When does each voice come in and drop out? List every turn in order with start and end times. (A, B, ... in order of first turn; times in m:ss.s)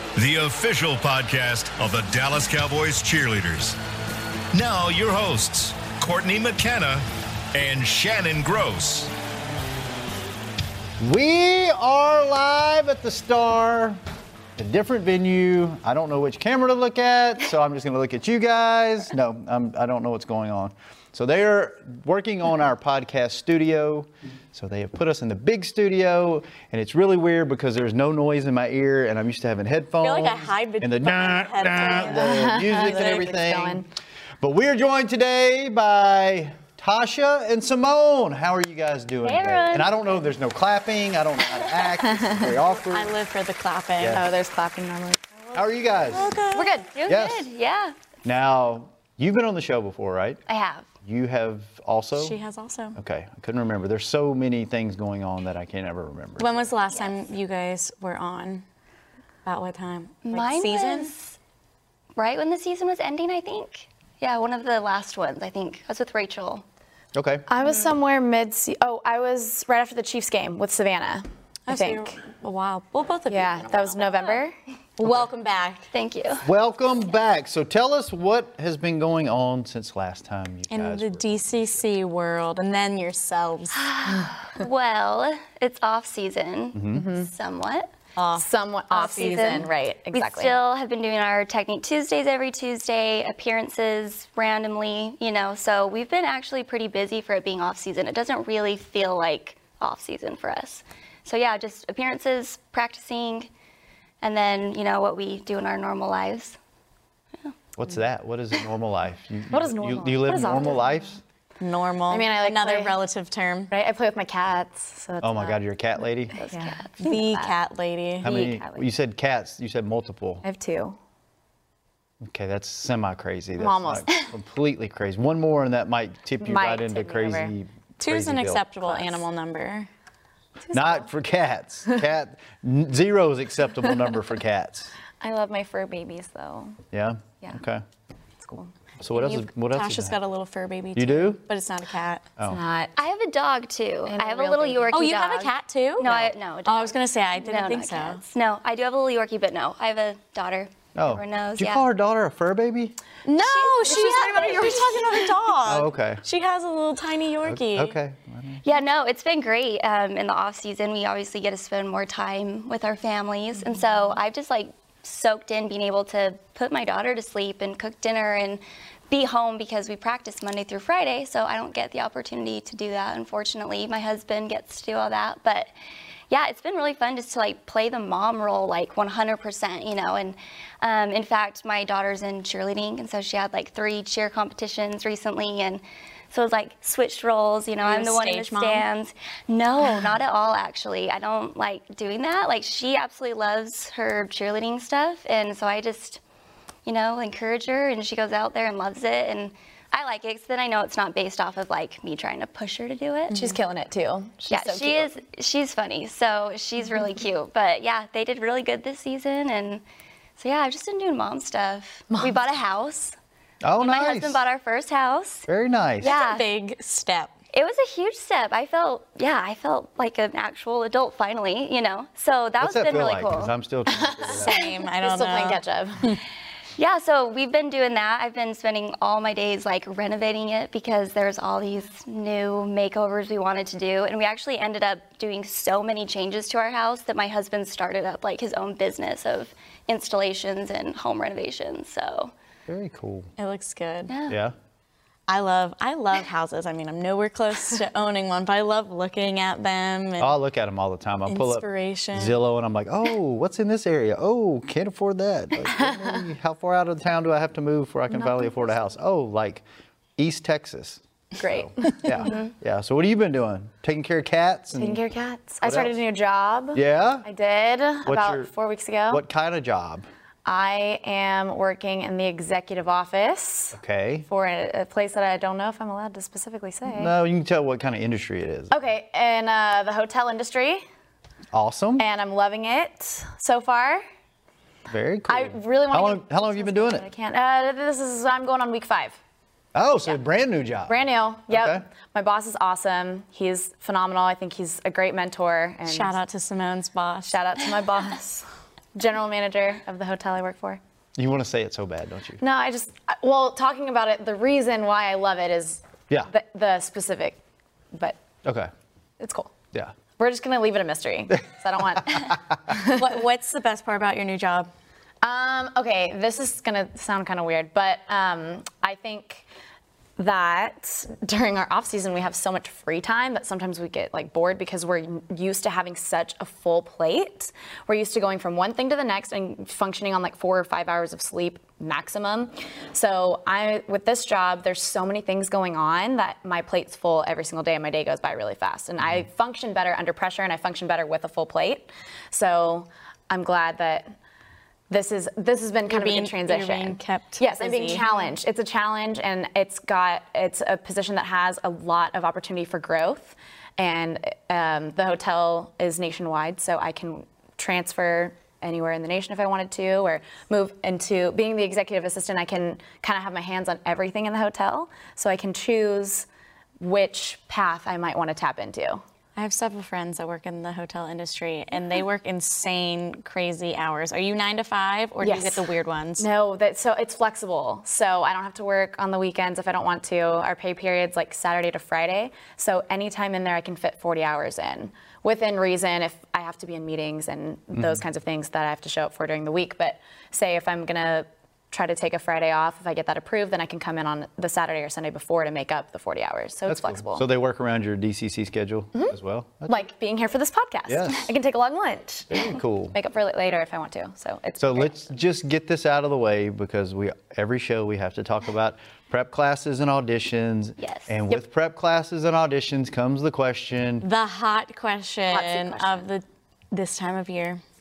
0:00.2-0:03.8 A
0:04.5-0:09.1 A
0:11.0-0:14.0 B
0:14.6-0:33.8 B
0:30.0-0:33.3 C
0:31.9-0:33.9 D
0:34.4-0:43.1 B
0:39.2-0:40.1 E
0:42.0-0:42.6 D
0:42.9-0:44.2 C
0:44.0-0:44.2 B
0:44.1-0:45.6 D
0:45.5-0:46.4 B
0:46.1-0:46.8 C
0:46.5-0:46.9 D
0:46.9-0:48.0 E
0:47.1-0:47.5 B
0:48.2-0:50.4 B
0:50.5-0:50.9 E
0:51.0-0:52.4 B
0:52.2-0:53.0 C
0:53.0-0:56.7 B
0:56.4-0:58.6 C
0:56.9-0:57.2 E
0:59.4-1:01.1 C
1:00.2-1:01.4 E
1:02.2-1:06.6 E
1:07.1-1:07.4 B
1:07.5-1:12.1 D
1:11.7-1:14.2 C
1:13.3-1:14.5 D
1:15.0-1:15.9 C
1:15.9-1:16.5 E
1:16.4-1:21.8 B
1:20.7-1:23.8 C
1:23.7-1:27.9 E
1:26.8-1:27.0 B
1:26.9-1:27.3 D
1:28.2-1:29.6 C
1:28.4-1:30.6 D
1:29.1-1:43.5 E
1:44.2-1:46.6 E
1:47.8-1:51.2 B
1:49.5-1:51.0 D
1:51.6-1:53.7 C
1:52.1-1:53.0 D
1:53.7-1:55.6 D
1:55.2-1:56.4 B
1:56.4-1:57.1 E
1:56.5-1:57.5 D
1:57.0-1:58.6 C
1:58.2-2:00.4 B
1:58.3-1:58.8 D
2:00.4-2:01.0 D
2:02.2-2:08.7 B
2:03.6-2:04.1 D
2:06.4-2:07.5 D
2:08.0-2:09.9 C
2:08.8-2:09.2 D
2:10.7-2:11.1 D
2:10.7-2:14.9 B
2:15.2-2:16.8 D
2:16.9-2:17.8 B
2:18.4-2:18.7 D
2:19.0-2:20.2 B
2:19.1-2:22.3 C
2:21.0-2:21.4 B
2:22.4-2:22.9 D
2:23.0-2:31.9 E
2:24.1-2:25.0 D
2:24.9-2:28.2 C
2:31.0-2:33.0 B
2:33.3-2:38.0 C
2:33.4-2:35.3 E
2:33.9-2:35.0 D
2:35.6-2:36.2 B
2:37.4-2:38.6 B
2:38.6-2:55.7 E
2:56.3-3:16.2 E
3:07.8-3:08.9 C
3:16.9-3:23.4 E
3:23.3-3:25.1 D
3:24.5-3:29.8 E
3:30.4-3:33.2 E
3:33.6-3:34.4 B
3:33.8-3:35.5 E
3:35.5-3:36.1 B
3:36.0-3:36.5 E
3:36.0-3:37.3 C
3:37.5-3:43.5 E
3:42.6-3:44.6 B
3:44.0-3:44.4 D
3:44.4-3:46.2 C
3:44.5-3:44.8 E
3:45.0-3:46.2 D
3:46.8-4:02.3 E
4:02.7-4:03.3 B
4:03.4-4:04.1 C
4:04.1-4:04.4 E
4:04.3-4:04.6 B
4:05.3-4:10.4 C
4:10.2-4:19.6 B
4:11.3-4:12.3 C
4:18.1-4:18.9 D
4:20.2-4:25.0 B
4:21.4-4:22.3 D
4:24.8-4:29.2 D
4:25.6-4:25.9 B
4:26.7-4:27.3 B
4:28.1-4:28.5 B
4:29.1-4:30.1 B
4:30.4-4:33.8 D
4:33.7-4:34.3 B
4:34.3-4:37.1 D
4:36.9-4:38.8 B
4:38.7-4:40.8 D
4:41.5-4:42.0 B
4:42.0-4:44.0 D
4:44.9-4:47.0 B
4:45.3-4:49.2 D
4:49.8-4:51.8 B
4:50.9-4:56.2 D
4:55.9-4:57.4 C
4:57.3-5:00.8 D
5:01.2-5:02.4 B
5:02.4-5:07.4 D
5:07.9-5:08.2 D
5:08.4-5:08.7 B
5:09.2-5:09.5 D
5:10.2-5:13.0 D
5:12.1-5:12.4 B
5:12.8-5:14.7 C
5:15.2-5:19.5 D
5:20.2-5:44.1 D
5:44.9-6:06.3 D
5:45.9-5:48.1 C
6:06.8-6:09.0 D
6:09.4-6:16.3 C
6:15.2-6:15.6 D
6:16.2-6:37.2 D
6:27.7-6:28.0 B
6:36.7-6:39.8 B
6:38.9-6:45.1 D
6:40.9-6:41.3 B
6:42.3-6:43.0 B
6:44.6-6:54.1 B
6:50.8-6:51.1 E
6:54.0-6:57.6 C
6:55.3-6:56.0 E